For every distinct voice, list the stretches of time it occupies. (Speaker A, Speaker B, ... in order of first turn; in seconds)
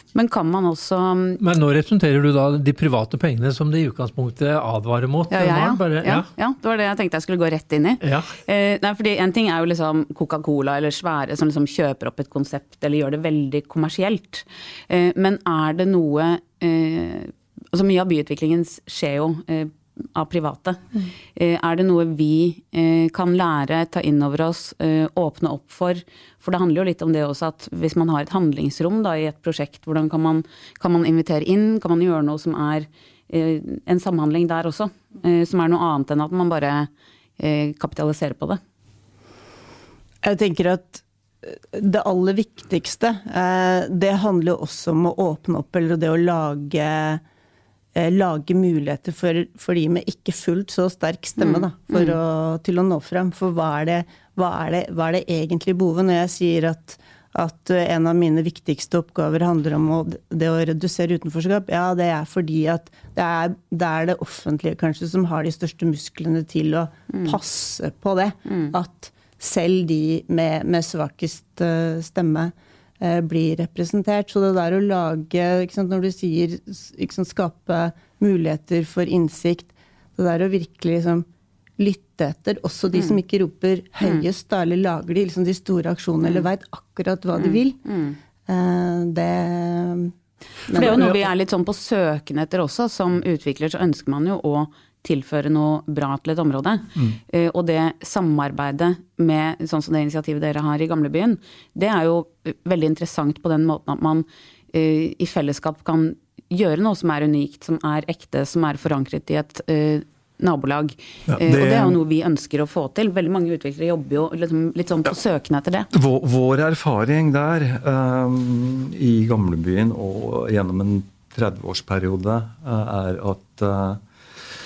Speaker A: 0.1-1.4, 5.3-38.6, 51.4-52.2, 67.1-67.4, 68.5-68.7, 84.0-84.3, 87.4-88.2, 90.7-115.9
Speaker B: 1.4-6.3, 8.0-8.4
Speaker C: 40.2-47.2, 48.0-81.3, 81.8-87.8, 88.5-90.1, 90.7-91.2
Speaker D: 111.3-112.0, 115.9-124.0